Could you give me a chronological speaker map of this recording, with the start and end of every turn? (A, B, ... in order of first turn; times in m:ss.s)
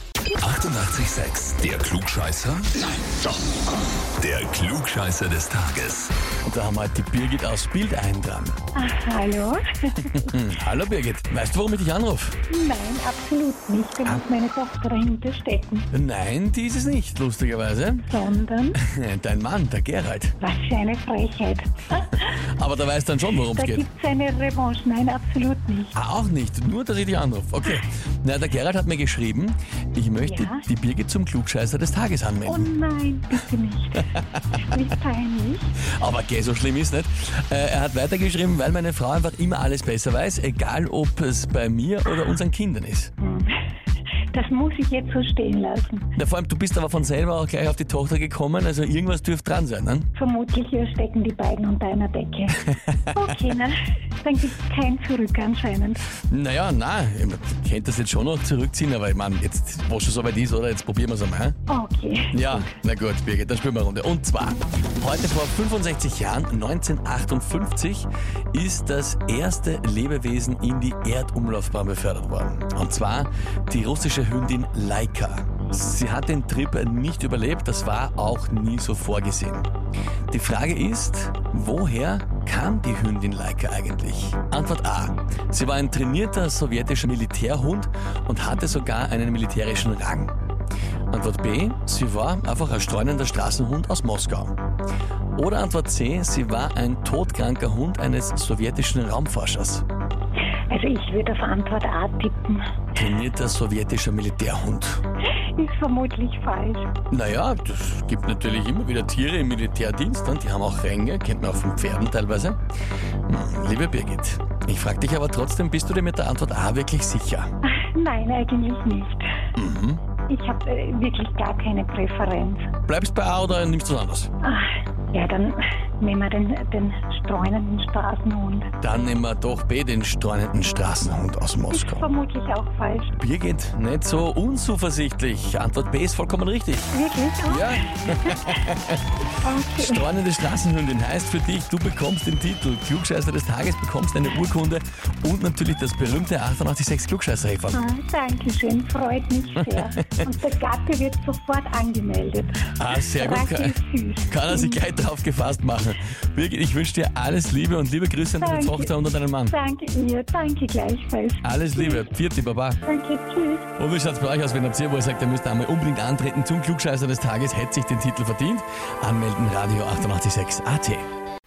0:00.4-0:03.3 A
0:04.2-0:06.1 A
0:06.4-0:08.6 B
0:08.7-0:10.3 C
0:10.1-0:12.4 B
0:12.5-0:15.9 C
0:15.9-0:18.1 B
0:18.0-0:18.8 C
0:18.8-0:20.4 B
0:20.4-0:22.4 C
0:22.3-0:23.8 B
0:23.5-0:25.9 C
0:25.9-0:32.7 B
0:30.2-0:30.6 C
0:32.4-0:35.8 C
0:34.1-0:34.4 B
0:36.0-0:43.1 B
0:43.2-0:43.6 C
0:44.3-0:46.1 C
0:46.2-0:50.1 B
0:50.1-0:56.0 C
0:53.1-0:53.3 B
0:56.3-1:01.5 B
1:01.7-1:02.7 C
1:02.3-1:19.7 B
1:20.3-1:30.3 B
1:31.1-1:34.5 B
1:35.4-1:39.8 B
1:40.7-1:42.7 C
1:42.9-1:45.0 B
1:45.6-1:46.9 C
1:47.1-1:52.6 B
1:53.3-1:57.5 B
1:57.6-1:59.2 C
1:59.6-2:00.0 B
2:00.3-2:02.7 C
2:02.9-2:04.3 B
2:04.4-2:08.7 C
2:08.8-2:12.1 B
2:11.7-2:13.1 C
2:13.2-2:16.9 B
2:16.9-2:18.6 C
2:17.4-2:19.0 B
2:19.4-2:20.0 C
2:19.8-2:27.9 B
2:27.7-2:34.8 C
2:29.6-2:30.2 B
2:32.8-2:33.8 B
2:34.3-2:39.5 B
2:38.4-2:38.9 C
2:39.4-2:42.1 C
2:41.4-2:42.8 B
2:42.8-2:43.7 C
2:43.8-2:51.0 B